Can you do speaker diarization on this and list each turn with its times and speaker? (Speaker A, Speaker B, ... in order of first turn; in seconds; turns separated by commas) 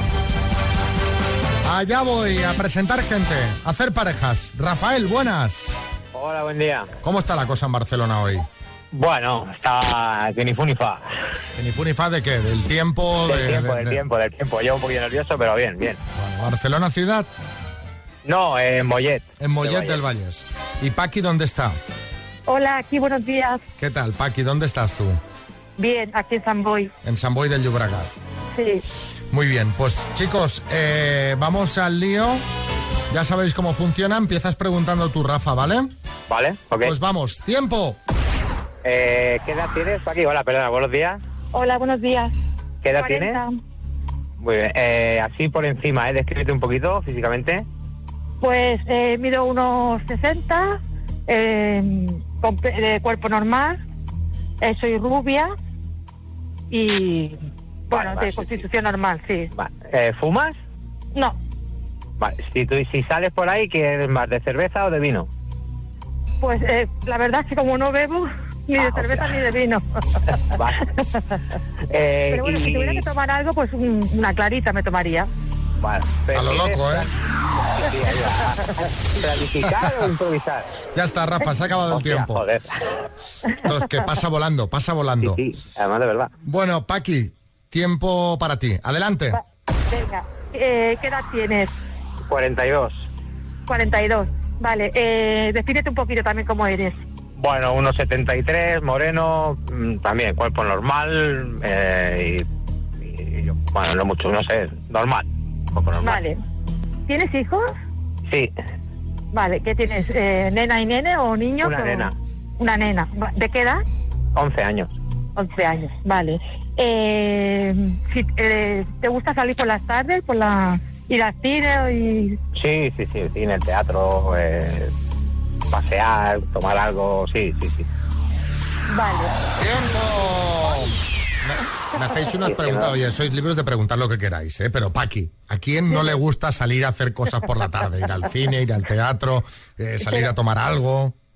Speaker A: 1.6-5.8, Speaker B: 6.1-6.9, Speaker A: 7.0-8.5, Speaker B: 8.9-11.1, Speaker A: 11.6-14.0, Speaker B: 13.3-16.0, Speaker A: 16.1-17.3, Speaker B: 18.2-20.0, Speaker A: 19.4-21.8, Speaker C: 22.5-23.6, Speaker A: 23.8-25.2, Speaker C: 25.8-26.9, Speaker A: 27.0-28.1, Speaker C: 28.5-28.8, Speaker A: 29.3-32.4, Speaker A: 33.1-35.9, Speaker B: 36.3-36.9, Speaker A: 36.8-38.0, Speaker B: 38.8-41.2, Speaker C: 41.5-42.3, Speaker B: 42.8-43.4, Speaker C: 43.0-43.5, Speaker B: 44.4-47.6, Speaker C: 48.4-53.8, Speaker C: 54.6-55.5, Speaker C: 56.7-57.4, Speaker B: 57.9-58.7, Speaker C: 57.9-59.5, Speaker B: 59.5-60.6, Speaker B: 62.2-65.3, Speaker C: 66.4-69.8, Speaker B: 68.8-69.4, Speaker B: 70.5-70.8, Speaker B: 71.9-73.0, Speaker C: 72.3-75.3, Speaker B: 75.8-77.1, Speaker A: 76.3-77.1, Speaker B: 77.8-80.7, Speaker A: 79.7-79.9, Speaker A: 80.9-82.4, Speaker B: 81.9-82.7, Speaker A: 83.6-85.4, Speaker B: 85.2-86.3, Speaker A: 86.4-89.4, Speaker C: 89.9-91.7, Speaker B: 92.3-93.0, Speaker C: 93.7-97.0, Speaker B: 97.4-102.4, Speaker B: 103.0-106.2, Speaker C: 106.0-106.4, Speaker C: 107.1-107.7, Speaker C: 109.3-113.8, Speaker B: 111.6-112.1, Speaker B: 114.3-114.9, Speaker C: 115.4-122.4, Speaker B: 122.5-124.9, Speaker B: 125.7-127.9, Speaker C: 128.9-129.3, Speaker A: 129.5-141.1, Speaker B: 132.5-132.9